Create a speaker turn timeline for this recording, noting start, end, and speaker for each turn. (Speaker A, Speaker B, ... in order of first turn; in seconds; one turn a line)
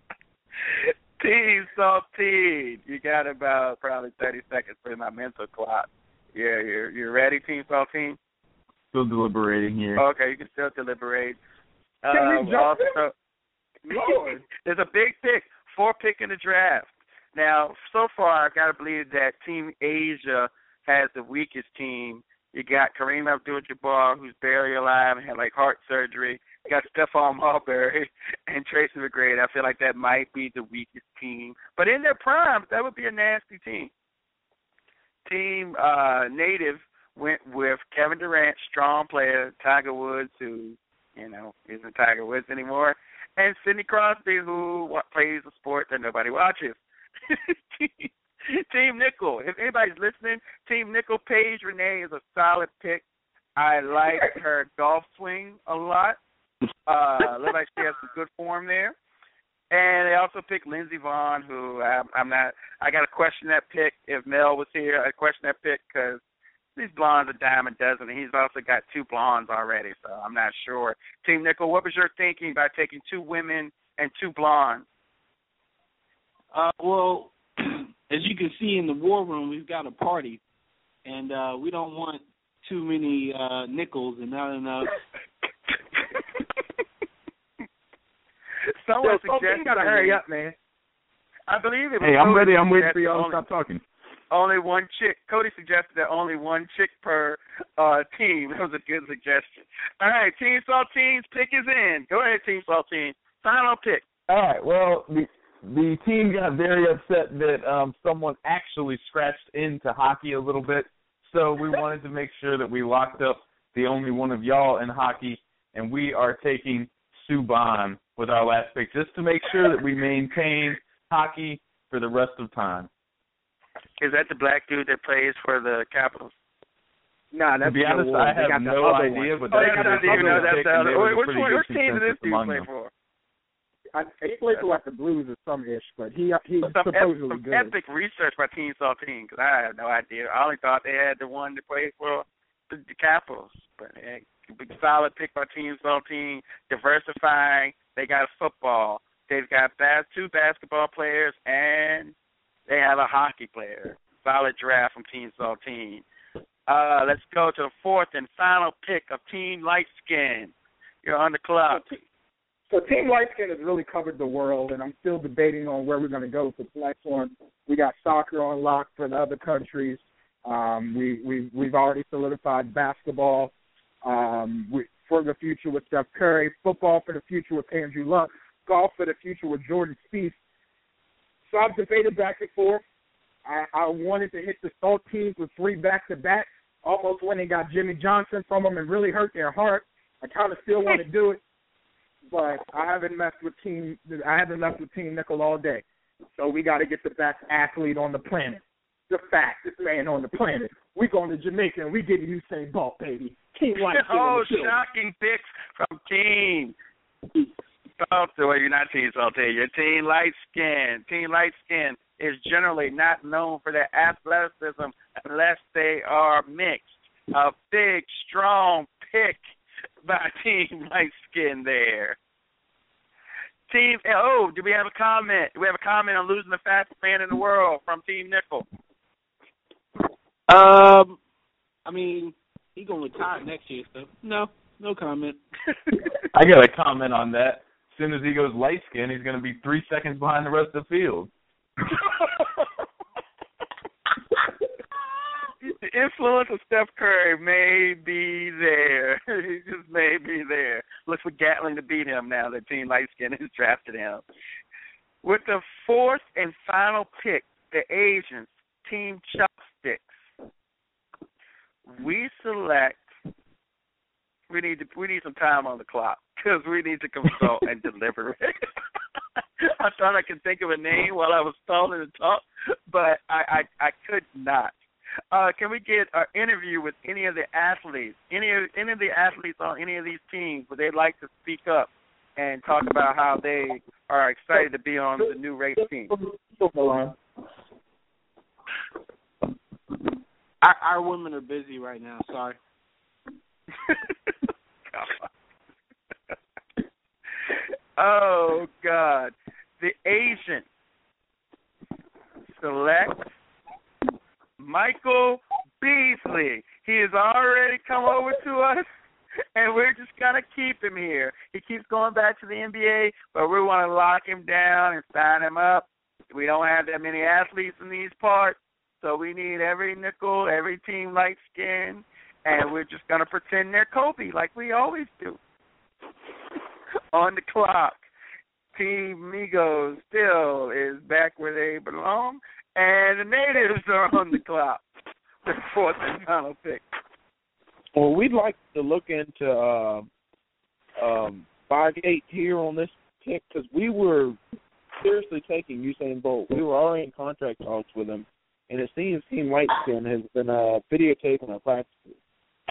Speaker A: 0.7-8.2
Speaker B: 8.9-10.0
Speaker A: 10.0-11.4
Speaker A: 12.0-13.1
Speaker C: 12.1-13.0
Speaker A: 13.9-33.9
Speaker C: 13.9-14.4
Speaker A: 35.2-46.8
Speaker A: 47.3-53.0
Speaker A: 53.6-56.2
Speaker A: 56.9-59.0
Speaker A: 59.7-66.2
Speaker A: 66.8-74.8
Speaker D: 76.5-80.4
Speaker D: 81.0-85.0
Speaker A: 88.8-90.2
Speaker C: 89.0-90.5
Speaker A: 91.5-93.4
Speaker B: 92.0-93.8
Speaker A: 94.3-104.0
Speaker B: 104.3-122.9
Speaker A: 124.0-126.3
Speaker C: 127.3-130.6
Speaker B: 127.6-132.7
Speaker A: 129.5-132.9
Speaker C: 133.9-137.8
Speaker A: 136.6-152.1
Speaker A: 152.7-156.0
Speaker A: 156.7-160.5
Speaker A: 161.0-161.9
Speaker C: 161.7-162.0
Speaker C: 162.7-173.5
Speaker C: 174.0-180.4
Speaker C: 181.5-182.8
Speaker C: 183.5-191.4
Speaker C: 192.3-204.8
Speaker A: 203.9-206.8
Speaker A: 208.0-219.4
Speaker A: 220.0-222.2
Speaker A: 223.7-228.7
Speaker D: 230.5-231.2
Speaker D: 231.9-235.4
Speaker B: 236.3-241.3
Speaker A: 245.6-254.2
Speaker A: 255.2-260.1
Speaker A: 261.9-263.0
Speaker A: 264.5-268.7
Speaker A: 269.6-274.7
Speaker A: 275.3-286.1
Speaker C: 285.8-287.1
Speaker D: 290.6-292.6
Speaker A: 294.9-295.3
Speaker A: 298.0-300.6
Speaker A: 302.5-303.3
Speaker A: 304.6-308.9
Speaker A: 309.6-325.4
Speaker A: 327.1-328.0
Speaker A: 328.8-334.8
Speaker A: 335.4-336.9
Speaker E: 337.9-340.1
Speaker E: 341.0-344.4
Speaker E: 345.0-352.1